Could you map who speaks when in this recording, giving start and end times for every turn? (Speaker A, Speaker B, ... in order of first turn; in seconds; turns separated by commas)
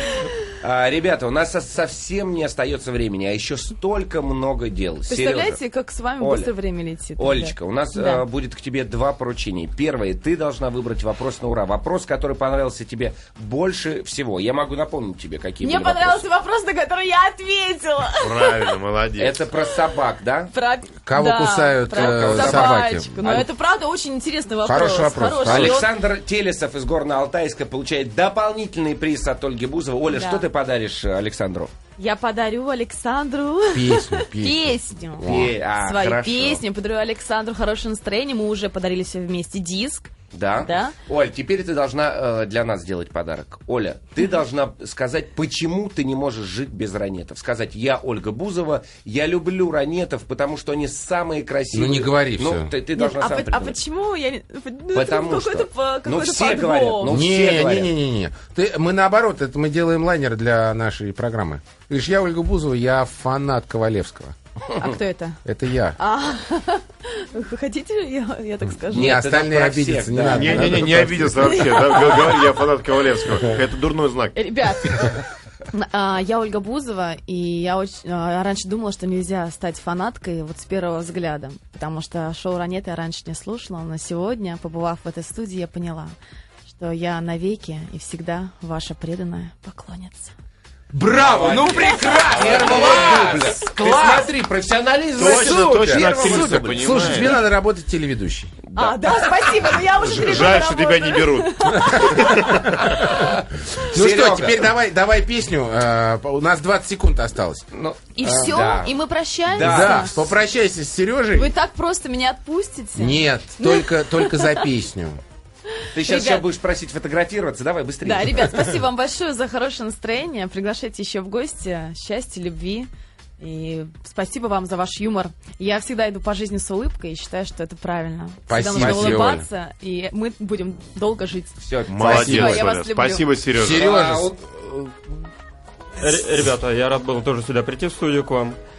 Speaker A: 0.6-5.6, Speaker B: 5.1-8.2, Speaker A: 6.2-6.5, Speaker A: 7.2-16.2, Speaker B: 15.6-18.8, Speaker C: 18.2-19.4, Speaker A: 19.2-20.5, Speaker B: 20.5-25.9, Speaker D: 21.0-23.4, Speaker A: 21.9-23.5, Speaker D: 24.6-25.8, Speaker A: 25.4-31.7, Speaker B: 30.1-30.4, Speaker B: 32.0-41.0, Speaker D: 33.7-35.5, Speaker A: 35.2-36.6, Speaker A: 40.3-53.8, Speaker D: 51.7-52.7, Speaker B: 52.9-57.1, Speaker A: 54.9-57.9, Speaker D: 57.0-64.3, Speaker B: 64.7-65.4, Speaker D: 65.4-66.0, Speaker B: 66.0-69.2, Speaker D: 68.9-71.6, Speaker A: 68.9-71.0, Speaker C: 70.3-74.4, Speaker B: 71.4-72.5, Speaker B: 74.3-86.2, Speaker B: 86.7-90.3, Speaker D: 90.9-94.1, Speaker A: 91.0-97.1, Speaker B: 92.7-93.5, Speaker C: 93.6-94.2, Speaker C: 95.1-97.3, Speaker D: 95.2-98.5, Speaker A: 98.6-99.5, Speaker B: 98.7-103.0, Speaker C: 99.9-102.8, Speaker D: 101.8-107.7, Speaker A: 103.2-104.7, Speaker A: 107.7-108.9, Speaker B: 108.2-110.1, Speaker A: 109.5-110.3, Speaker D: 109.5-111.5, Speaker B: 111.3-114.6, Speaker D: 113.0-115.2, Speaker B: 115.8-116.4, Speaker A: 115.9-118.7, Speaker B: 118.0-133.3, Speaker D: 128.5-129.4, Speaker A: 128.7-129.3, Speaker A: 131.7-132.5, Speaker C: 131.9-133.8, Speaker D: 132.0-132.7, Speaker D: 133.5-135.0, Speaker A: 133.6-134.4, Speaker E: 136.0-138.6